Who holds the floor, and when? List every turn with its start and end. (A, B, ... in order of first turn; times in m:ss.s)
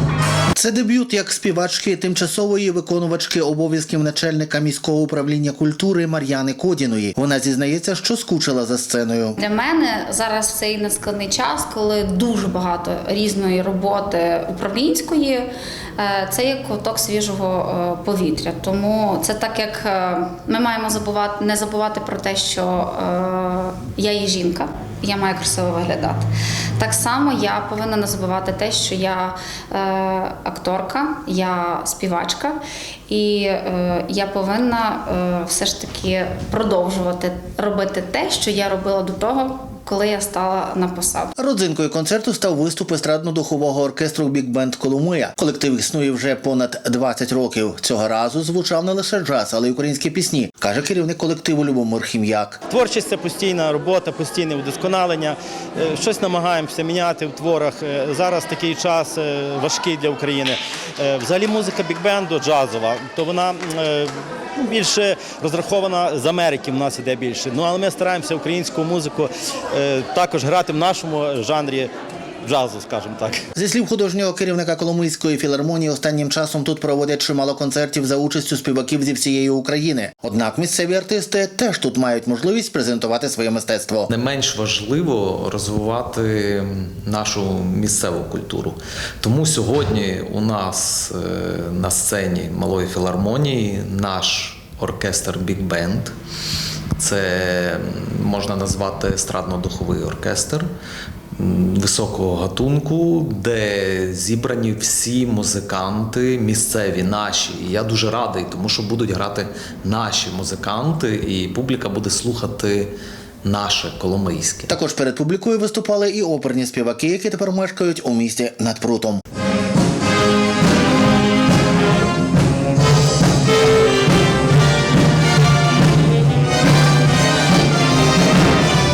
0:00.5-0:09.4 A
0:09.4-0:41.3 B
0:41.4-0:52.6 A
0:52.7-1:11.9 C
1:12.4-1:13.4 C
1:13.5-1:24.1 A
1:24.1-1:36.1 D
1:37.0-1:40.7 D
1:41.4-1:52.9 D
1:53.4-1:54.7 D
1:54.7-1:59.2 A